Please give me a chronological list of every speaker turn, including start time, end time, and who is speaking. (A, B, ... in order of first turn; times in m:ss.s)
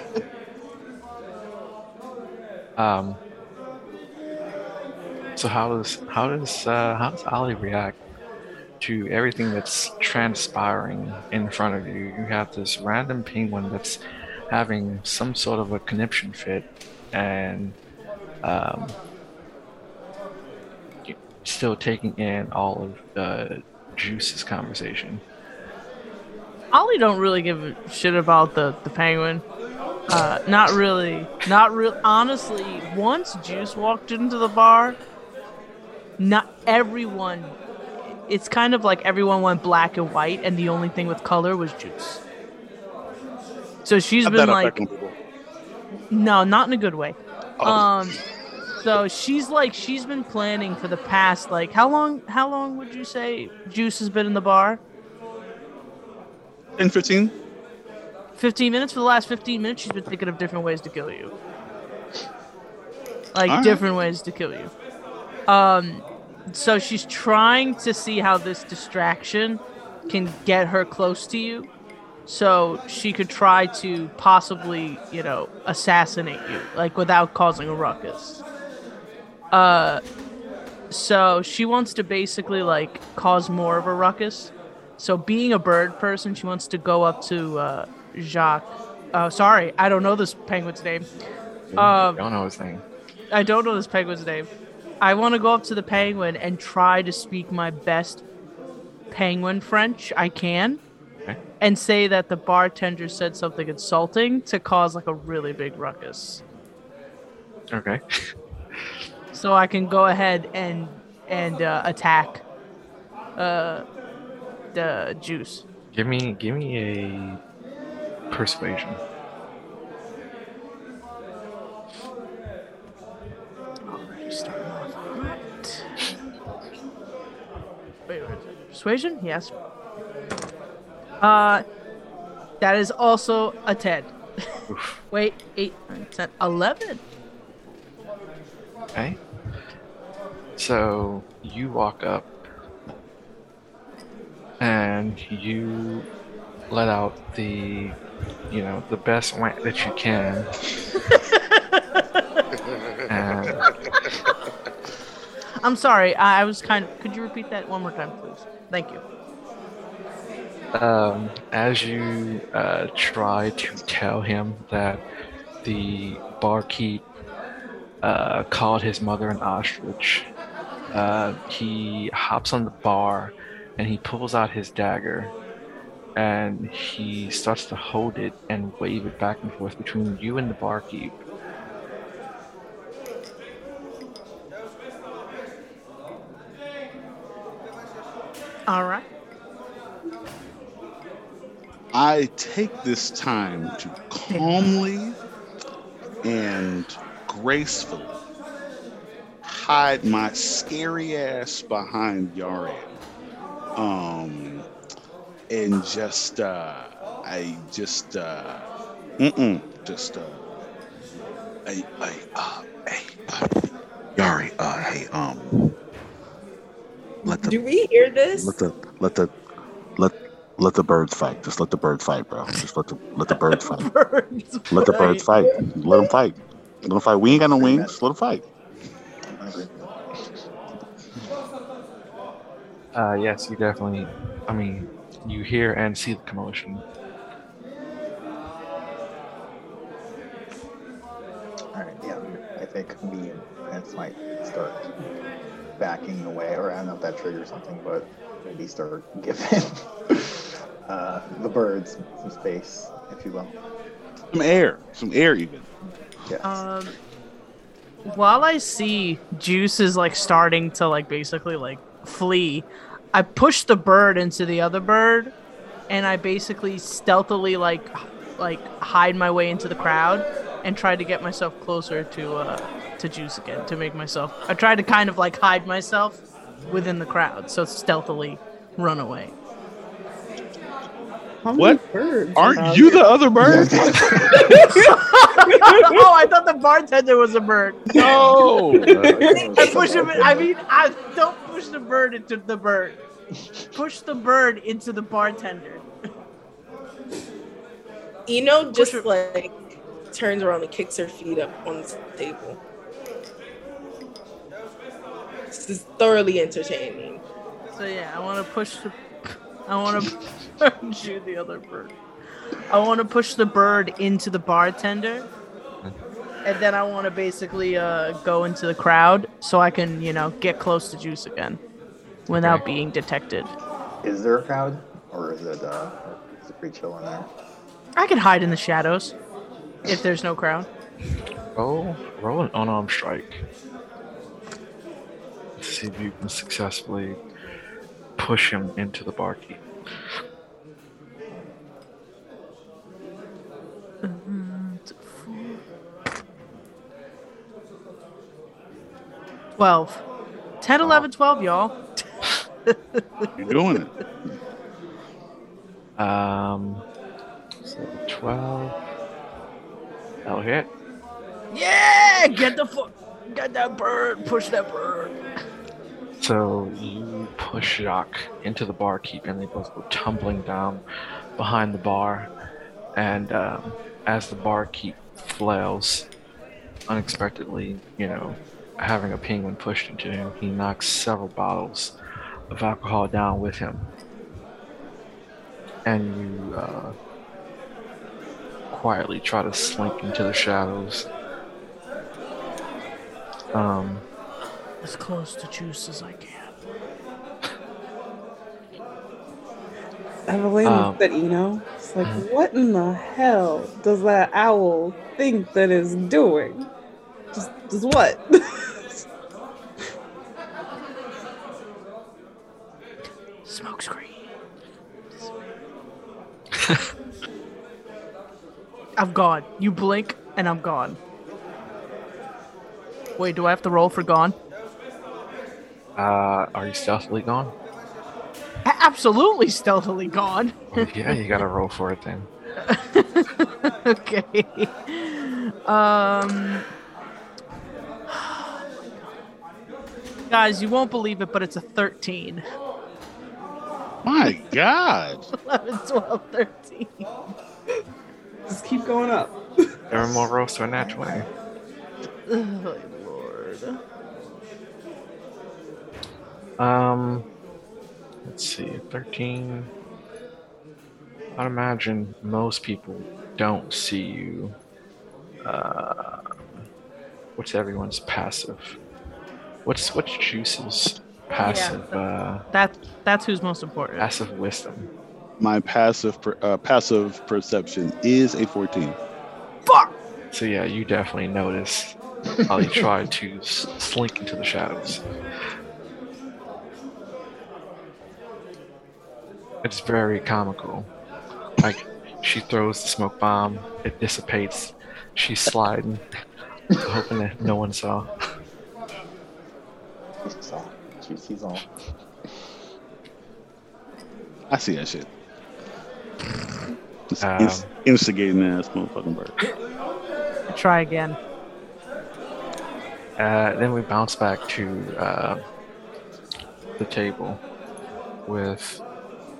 0:02.8-0:03.2 A
0:05.4-0:08.0 A
0:08.8-0:14.0 A
0:14.5-0:17.8 A
0:18.4-0:19.0 A
0:21.1-0:25.2 A
0:26.7-0:29.4 B
0:30.1-0:35.0 B
0:36.2-0:37.6 B
0:38.3-0:42.2 B
0:43.8-0:44.8 B
0:44.2-0:45.2 C
0:46.1-0:48.2 B
0:47.6-0:47.9 C
0:48.8-0:54.8 B
0:56.8-0:57.3 C
0:58.4-1:01.3 B
1:03.3-1:04.7 B
1:03.5-1:03.8 C
1:05.5-1:11.7 B
1:12.3-1:18.4 B
1:19.5-1:20.0 B
1:20.9-1:31.1 B
1:31.7-1:32.8 A
1:31.8-1:32.2 B
1:33.3-1:34.5 B
1:35.0-1:38.2 B
1:39.1-1:40.8 B
1:41.6-1:46.4 B
1:47.7-1:48.0 A
1:49.3-1:52.4 B
1:53.4-1:53.8 B
1:54.7-1:55.6 B
1:55.9-1:57.4 A
1:58.3-1:59.0 A
2:03.9-2:06.1 B
2:08.1-2:09.5 B
2:11.2-2:11.6 B
2:12.6-2:14.1 B
2:14.7-2:15.0 A
2:15.1-2:17.0 B
2:19.0-2:19.2 A
2:20.6-2:22.3 A
2:24.6-2:26.1 A
2:26.7-2:28.0 A
2:28.5-2:30.5 A
2:31.0-2:32.4 B
2:33.1-2:33.6 A
2:35.6-2:39.0 B
2:40.7-2:45.0 A
2:45.6-2:47.1 A
2:48.0-2:50.3 A
2:50.9-2:55.4 A
2:56.2-3:01.2 A
3:08.7-3:09.0 B
3:11.9-3:15.2 C
3:14.3-3:14.6 B
3:16.2-3:18.2 C
3:19.4-3:22.9 C
3:23.8-3:24.7 C
3:25.5-3:30.5 C
3:31.7-3:35.7 C
3:37.2-3:38.6 D
3:37.2-3:37.6 C
3:38.4-3:39.3 C
3:40.0-3:43.9 C
3:43.3-3:45.2 B
3:44.7-3:48.4 C
3:45.4-3:46.1 D
3:47.3-3:48.0 E
3:49.2-3:50.4 E
3:53.0-3:56.8 A
4:01.7-4:04.9 E
4:05.8-4:13.6 E
4:14.3-4:15.7 C
4:16.3-4:16.6 E
4:16.4-4:16.9 B
4:18.1-4:25.3 B
4:25.9-4:39.3 B
4:41.4-4:43.0 F
4:41.5-4:41.8 C
4:42.4-4:44.0 C
4:42.6-4:44.6 E
4:44.4-4:47.8 B
4:47.9-4:49.2 C
4:49.0-4:50.5 E
4:49.6-4:53.0 B
4:53.8-4:55.8 B
4:58.3-4:59.6 D
4:58.7-4:59.1 B
5:00.1-5:02.6 D
5:05.5-5:07.2 D
5:07.7-5:12.0 B
5:12.7-5:15.3 B
5:16.4-5:21.6 B
5:22.3-5:23.5 B
5:22.4-5:22.6 A
5:24.0-5:27.3 E
5:28.0-5:29.1 B
5:29.9-5:30.7 B
5:31.6-5:33.4 A
5:35.6-5:37.2 A
5:38.2-5:39.6 A
5:44.0-5:45.6 B
5:49.6-5:50.0 B
5:50.6-5:53.5 B
5:50.8-5:51.1 A
5:53.4-5:53.9 C
5:56.0-5:56.8 A
5:57.6-5:58.8 A
6:00.2-6:00.7 A
6:01.5-6:05.2 B
6:06.2-6:10.8 A
6:11.4-6:12.3 A
6:13.0-6:16.1 A
6:16.9-6:22.0 A
6:22.5-6:23.9 A
6:25.9-6:27.0 A
6:28.7-6:31.1 A
6:33.5-6:34.0 A
6:34.8-6:36.6 B
6:40.3-6:46.7 F
6:40.6-6:41.0 A
6:47.3-6:49.0 F
6:53.4-6:54.2 B
6:59.0-7:01.0 B
7:03.2-7:04.4 B
7:06.0-7:07.5 A
7:08.7-7:11.4 B
7:10.7-7:12.3 A
7:12.6-7:16.7 B
7:18.1-7:19.1 B
7:20.3-7:22.4 B
7:24.0-7:25.3 C
7:25.3-7:27.1 B
7:28.5-7:29.4 F
7:29.9-7:31.3 A
7:29.9-7:31.3 E
7:32.3-7:33.8 B
7:36.6-7:37.3 A
7:38.2-7:39.7 A
7:41.4-7:44.6 A
7:45.4-7:46.2 A
7:47.4-7:48.8 A
7:49.6-7:52.4 A
7:51.4-7:52.0 B
7:52.5-7:54.1 B
7:54.0-7:54.9 A
7:55.4-7:59.0 C
8:00.3-8:05.0 A
8:02.5-8:02.9 E
8:09.6-8:10.9 A
8:11.6-8:16.0 A
8:16.8-8:18.1 A
8:20.2-8:21.7 E
8:24.5-8:25.1 C
8:27.1-8:29.4 C
8:27.2-8:27.7 A
8:30.5-8:31.2 B
8:33.2-8:35.4 A
8:36.8-8:37.4 A
8:38.3-8:38.8 A